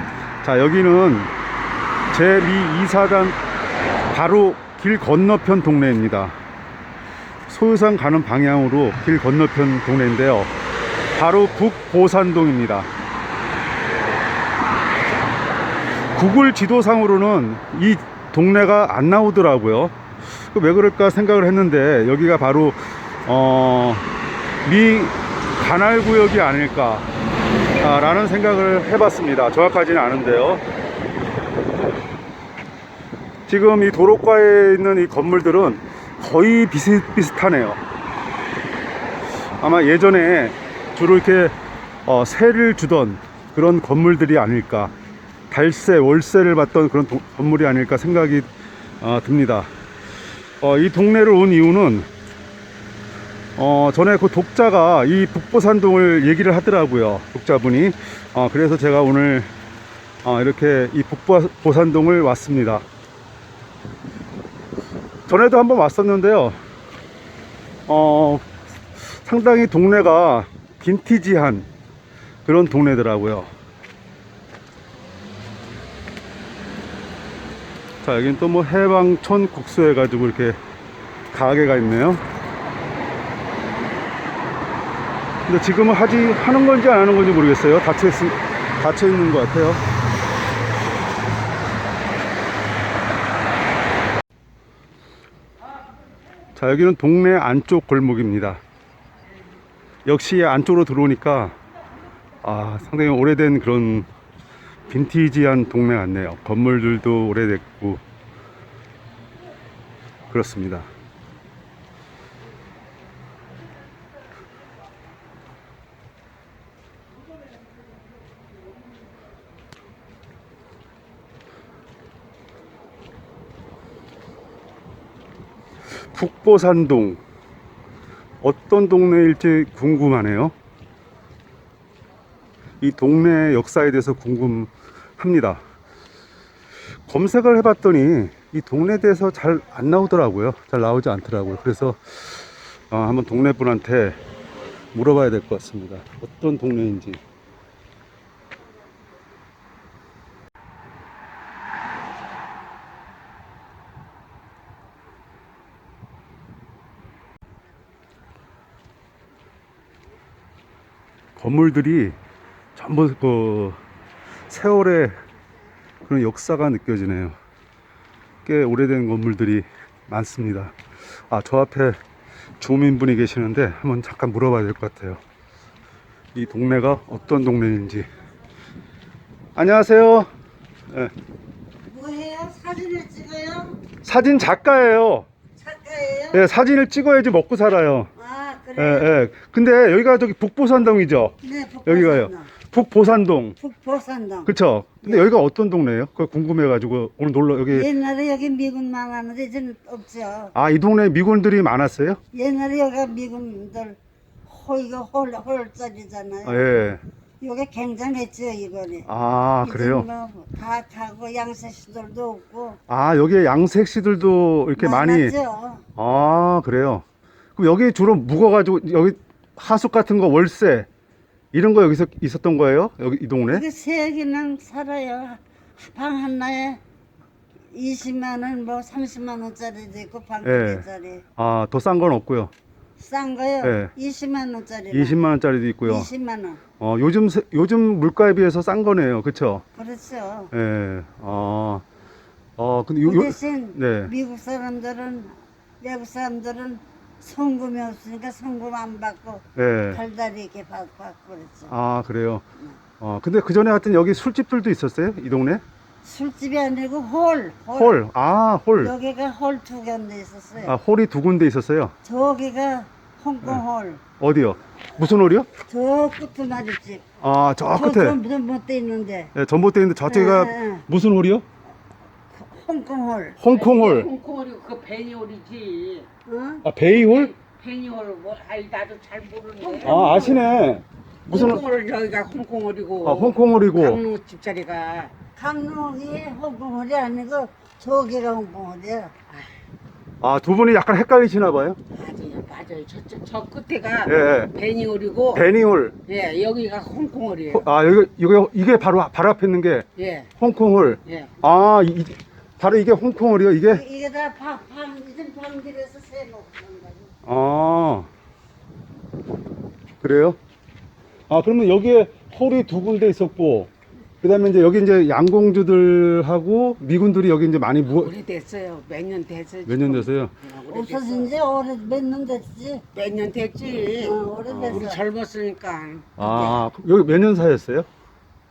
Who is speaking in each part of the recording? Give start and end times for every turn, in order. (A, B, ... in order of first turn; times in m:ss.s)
0:00.4-0:01.3 A
0:02.1-0:03.4 A
0:04.1-0:06.4 A
0:07.5-0:10.5 A
0:11.1-0:12.9 A
0:16.1-0:19.9 A
0:20.5-0:24.1 A
0:24.6-0:27.1 A
0:27.8-0:30.6 A
0:33.5-0:37.8 A
0:39.6-0:41.5 A
0:42.0-0:44.9 A
0:45.5-0:48.5 A
0:49.0-0:49.7 A
0:50.6-0:52.1 A
0:53.6-0:59.5 A
1:00.2-1:02.8 A
1:05.3-1:06.6 A
1:07.9-1:11.7 A
1:12.4-1:13.5 A
1:18.0-1:20.6 A
1:21.3-1:22.2 A
1:25.5-1:29.8 A
1:36.6-1:38.6 A
1:40.0-1:41.6 A
1:42.4-1:44.1 A
1:44.9-1:48.0 A
1:50.3-1:50.9 A
2:06.0-2:07.2 A
2:08.4-2:10.5 A
2:12.8-2:15.6 A
2:17.1-2:24.2 A
2:24.9-2:27.2 A
2:41.4-2:42.2 A
2:42.8-2:43.8 A
2:44.5-2:45.2 A
2:46.0-2:47.4 A
2:48.4-2:50.7 A
2:51.3-2:52.0 A
2:52.6-2:55.2 A
2:56.3-2:58.1 A
2:59.6-3:00.3 A
3:01.9-3:03.8 B
3:04.0-3:05.3 A
3:05.6-3:06.5 B
3:06.3-3:08.1 A
3:08.2-3:09.1 B
3:08.8-3:11.3 A
3:11.4-3:12.5 B
3:11.8-3:13.6 A
3:13.6-3:15.3 B
3:14.4-3:17.9 A
3:17.7-3:20.5 B
3:20.5-3:22.2 A
3:22.3-3:26.6 B
3:26.4-3:27.0 A
3:27.4-3:29.1 B
3:29.1-3:30.1 A
3:29.6-3:32.8 B
3:32.9-3:35.4 A
3:34.8-3:35.8 B
3:36.0-3:37.0 A
3:37.6-3:40.9 A
3:41.5-3:43.6 A
3:43.5-3:46.8 B
3:47.7-3:51.2 B
3:50.4-3:50.8 A
3:51.4-3:52.5 A
3:53.0-3:55.2 B
3:53.6-3:53.9 A
3:54.9-3:56.1 A
3:55.8-3:56.6 B
3:56.8-3:59.6 A
3:59.7-4:00.5 B
4:00.5-4:01.8 A
4:02.6-4:04.1 A
4:03.0-4:11.7 B
4:09.6-4:10.0 A
4:11.7-4:12.4 A
4:13.0-4:15.6 A
4:16.0-4:18.0 B
4:17.7-4:18.9 A
4:18.8-4:20.8 B
4:20.6-4:21.9 A
4:22.0-4:24.0 B
4:24.2-4:25.5 A
4:25.6-4:27.0 B
4:27.2-4:28.2 A
4:27.7-4:29.3 B
4:29.3-4:31.4 A
4:30.0-4:30.8 B
4:32.3-4:33.4 B
4:33.4-4:34.1 A
4:33.4-4:36.1 C
4:36.2-4:36.6 B
4:36.6-4:37.3 A
4:36.8-4:40.0 C
4:39.6-4:40.5 B
4:39.8-4:41.6 A
4:41.3-4:45.1 C
4:43.0-4:44.0 A
4:45.4-4:49.1 B
4:50.2-4:51.8 A
4:51.9-4:55.5 C
4:54.0-4:54.5 A
4:55.3-4:55.9 A
4:56.0-4:57.7 C
4:57.5-4:59.9 A
5:00.0-5:00.3 C
5:00.4-5:03.8 A
5:01.0-5:01.3 C
5:03.7-5:07.1 B
5:07.2-5:08.1 A
5:10.0-5:10.4 A
5:11.3-5:13.7 A
5:14.2-5:18.1 A
5:17.9-5:21.3 C
5:19.6-5:20.3 A
5:20.7-5:22.8 B
5:22.9-5:26.7 C
5:24.0-5:25.0 B
5:24.5-5:24.8 A
5:26.2-5:27.9 A